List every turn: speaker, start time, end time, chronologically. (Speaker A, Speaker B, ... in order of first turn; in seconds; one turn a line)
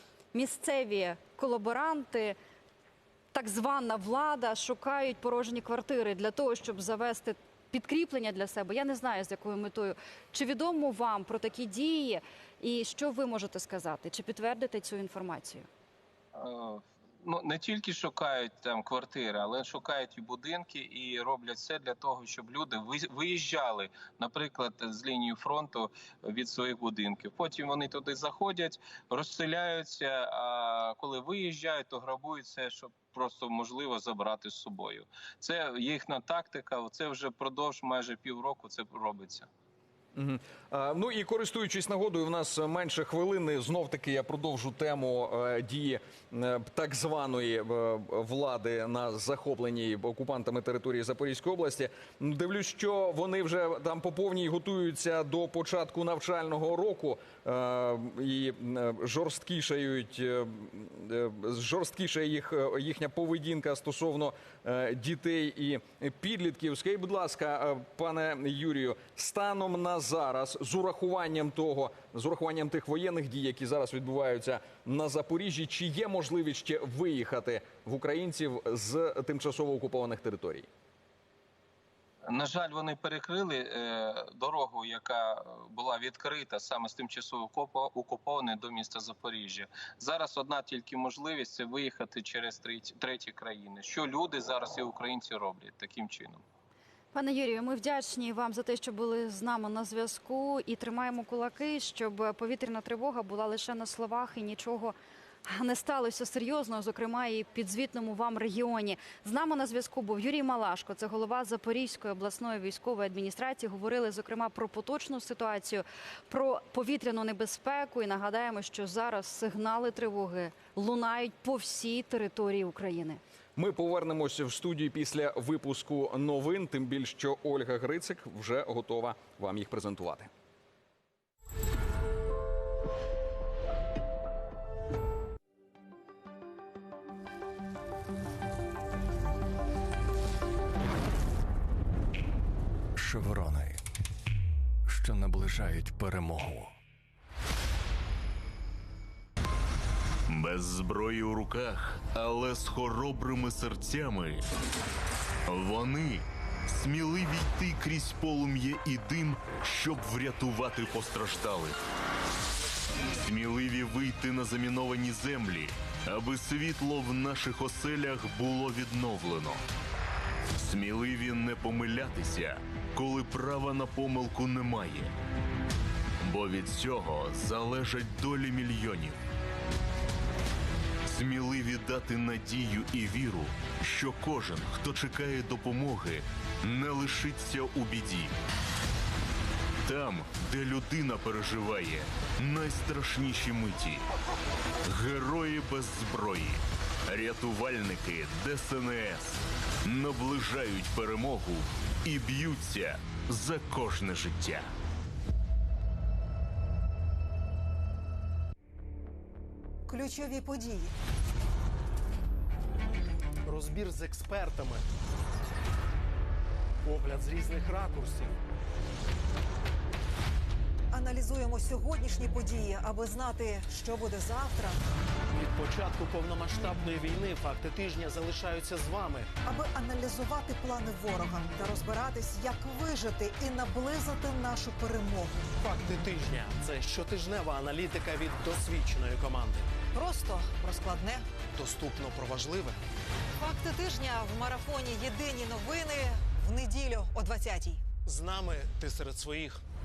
Speaker A: 0.3-2.4
Speaker A: 3.3-15.7
Speaker B: 16.4-39.5
Speaker C: 40.1-80.7
Speaker B: 82.3-96.4
Speaker A: 97.1-104.9
Speaker A: 105.5-123.2
Speaker C: 123.5-130.3
Speaker D: 143.0-143.8
Speaker D: 144.9-146.7
Speaker E: 150.3-154.4
Speaker E: 155.5-161.8
Speaker E: 163.0-169.6
Speaker E: 170.6-175.1
Speaker E: 176.2-179.2
Speaker E: 181.1-188.3
Speaker E: 189.8-194.0
Speaker E: 194.8-204.7
Speaker F: 209.9-210.9
Speaker G: 213.4-214.8
Speaker G: 216.8-218.4
Speaker F: 220.9-224.8
Speaker G: 225.3-229.3
Speaker F: 229.4-235.4
Speaker G: 235.6-239.7
Speaker F: 239.9-241.2
Speaker G: 241.5-242.8
Speaker F: 243.4-247.8
Speaker G: 248.1-249.6